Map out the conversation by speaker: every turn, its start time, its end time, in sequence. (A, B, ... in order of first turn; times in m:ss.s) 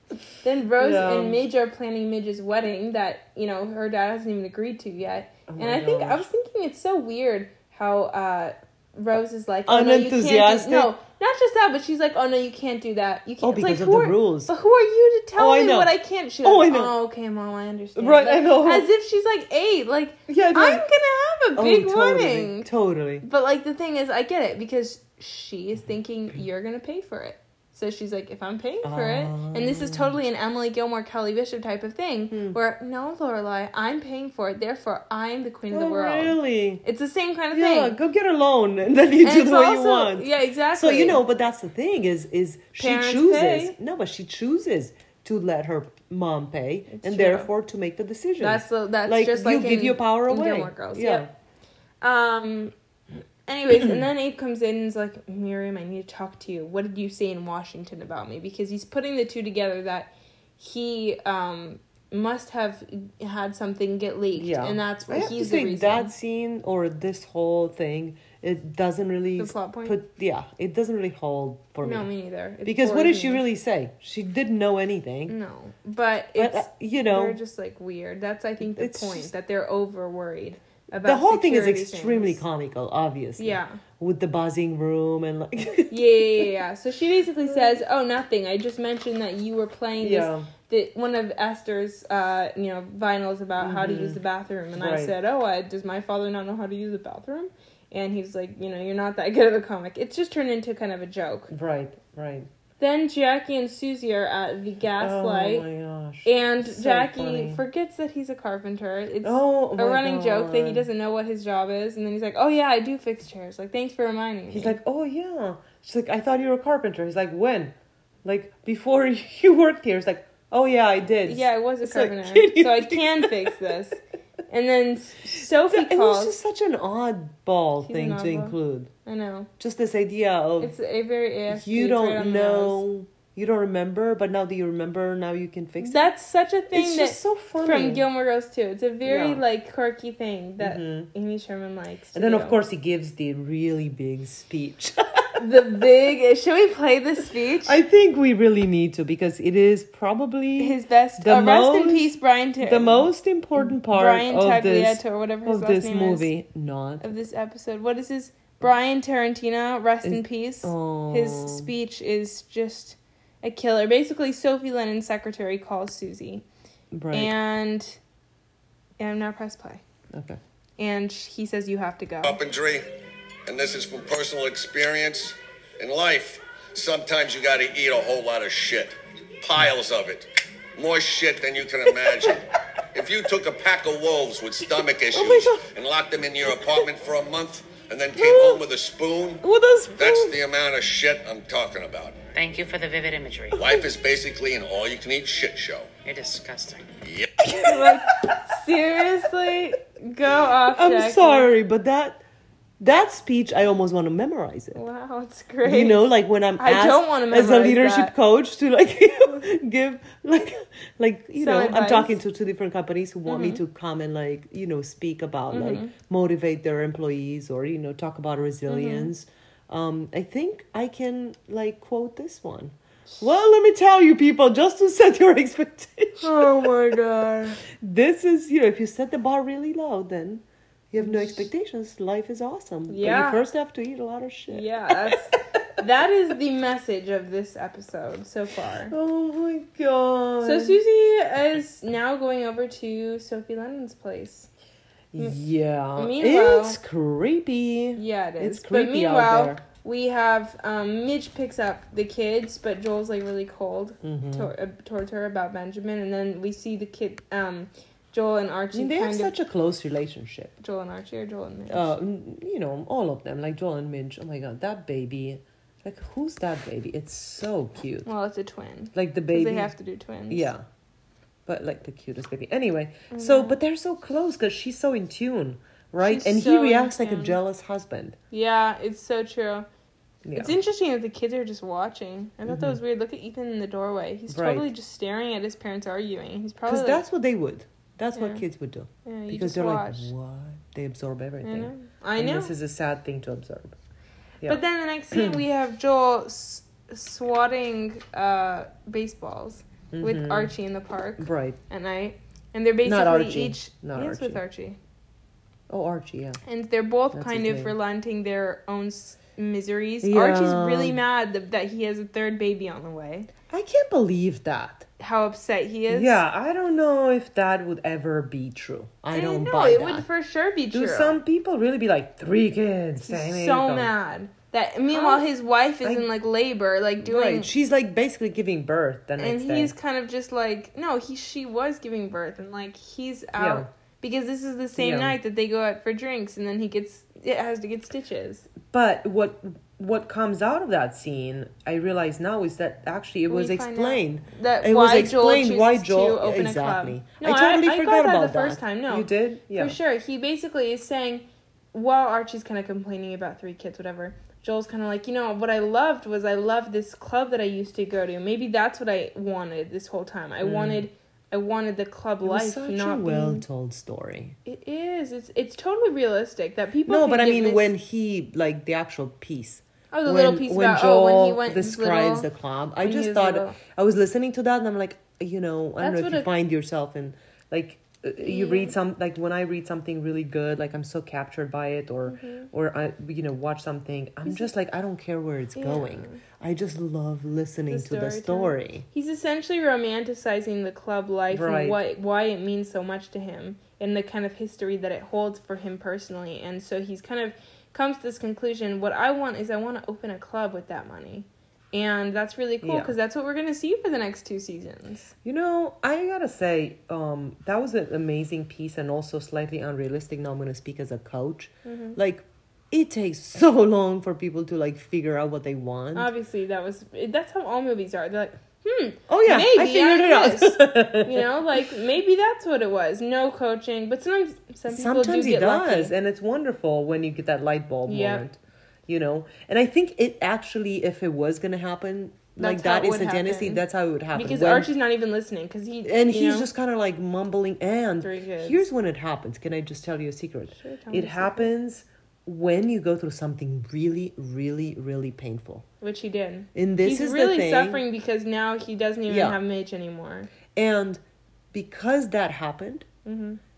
0:00.4-0:22.7 A
0:00.8-0:01.4 B
0:05.5-0:06.3 B
0:09.7-0:10.9 B
0:13.4-0:14.5 B
0:15.4-0:17.0 B
0:18.0-0:18.9 B
0:20.3-0:20.9 B
0:21.6-0:23.3 B
0:23.2-0:38.0 A
0:28.8-0:30.2 B
0:32.3-0:32.6 B
0:35.7-0:36.8 B
0:37.5-0:51.3 B
0:39.2-0:41.2 A
0:42.8-0:43.8 A
0:46.9-0:47.5 A
0:48.4-0:51.3 A
0:52.0-0:52.7 A
0:53.5-1:06.1 A
0:53.7-0:54.1 B
1:04.4-1:12.1 B
1:09.4-1:10.0 A
1:11.8-1:13.4 A
1:12.6-1:15.4 B
1:15.3-1:22.4 A
1:16.4-1:17.4 B
1:18.6-1:19.3 B
1:21.0-1:26.5 B
1:23.4-1:23.8 A
1:25.9-1:41.5 A
1:27.5-1:27.8 B
1:30.0-1:30.5 B
1:33.6-1:34.2 B
1:34.8-1:35.1 B
1:41.5-1:42.5 B
1:42.8-1:45.7 A
1:45.0-1:47.6 B
1:46.2-1:54.8 A
1:49.2-1:50.9 B
1:54.5-2:03.7 B
2:01.3-2:06.4 A
2:05.3-2:08.9 B
2:07.8-2:09.5 A
2:09.6-2:10.8 B
2:10.6-2:12.8 A
2:11.5-2:16.1 B
2:15.8-2:22.6 A
2:16.7-2:18.0 B
2:19.0-2:19.4 B
2:20.6-2:21.1 B
2:22.1-2:25.4 B
2:25.4-2:27.8 A
2:27.6-2:37.1 B
2:30.6-2:36.3 A
2:37.0-2:46.4 A
2:40.0-2:41.7 B
2:46.9-2:47.4 B
2:47.1-2:48.0 A
2:49.0-2:49.8 A
2:50.1-2:50.4 B
2:50.8-2:52.4 A
2:52.2-2:52.9 C
2:53.5-3:09.4 C
3:02.0-3:02.4 B
3:05.1-3:05.7 B
3:08.1-3:08.6 B
3:09.4-3:10.4 B
3:10.0-3:12.2 C
3:12.3-3:13.6 D
3:13.5-3:15.9 C
3:16.0-3:16.8 D
3:17.0-3:17.3 C
3:17.5-3:18.0 B
3:17.5-3:21.5 A
3:20.7-3:22.2 B
3:22.8-3:24.8 B
3:24.8-3:28.1 A
3:25.6-3:55.4 B
3:31.4-3:32.2 A
3:33.3-3:33.6 A
3:35.5-3:35.9 A
3:38.7-3:39.1 A
3:46.2-3:47.6 A
3:51.0-3:51.5 A
3:52.9-3:53.4 A
3:54.5-3:58.9 A
3:58.9-4:00.8 B
4:00.4-4:04.5 A
4:05.1-4:09.6 B
4:06.0-4:06.8 A
4:08.0-4:19.3 A
4:14.0-4:14.5 B
4:18.7-4:20.5 B
4:20.6-4:22.0 A
4:21.7-4:28.1 B
4:28.0-4:30.5 A
4:28.9-4:29.7 B
4:30.3-4:30.6 B
4:31.5-4:38.2 B
4:33.1-4:33.6 A
4:36.0-4:37.4 A
4:38.3-4:39.7 A
4:40.2-4:40.6 B
4:40.4-4:47.0 A
4:42.5-4:42.8 B
4:44.3-4:44.7 B
4:46.7-4:53.8 B
4:48.2-4:48.4 A
4:49.0-4:50.1 A
4:51.4-4:52.5 A
4:54.4-5:04.8 A
4:55.1-4:55.4 B
4:59.9-5:00.5 B
5:01.2-5:01.6 B
5:02.8-5:04.4 B
5:05.7-5:06.4 B
5:06.4-5:13.3 A
5:07.1-5:07.8 B
5:10.0-5:11.0 B
5:13.5-5:14.9 B
5:15.0-5:16.2 A
5:15.9-5:20.1 B
5:19.1-5:21.2 A
5:20.7-5:23.9 B
5:23.0-5:27.5 A
5:24.9-5:25.3 B
5:25.8-5:26.1 B
5:27.0-5:29.7 B
5:29.2-5:38.5 A
5:33.4-5:33.7 B
5:34.8-5:35.2 B
5:38.7-5:49.8 B
5:43.3-6:03.4 A
6:00.4-6:00.9 B
6:02.2-6:04.4 B
6:04.4-6:07.7 A
6:06.9-6:28.9 B
6:09.9-6:12.3 A
6:12.8-6:13.6 A
6:15.8-6:16.3 A
6:18.2-6:18.8 A
6:22.1-6:22.5 A
6:24.3-6:24.5 A
6:25.6-6:26.2 A
6:27.7-6:45.1 A
6:31.3-6:31.8 B
6:42.6-6:42.9 B
6:45.2-6:56.1 B
6:51.6-6:52.0 A
6:56.0-7:05.9 A
6:59.1-7:01.3 B
7:04.7-7:14.7 B
7:07.9-7:08.2 A
7:12.4-7:16.5 A
7:15.8-7:25.6 B
7:18.0-7:18.6 A
7:20.5-7:21.5 A
7:25.8-7:30.3 A
7:26.6-7:27.8 B
7:29.1-7:29.4 B
7:30.5-7:32.9 B
7:33.0-7:33.4 A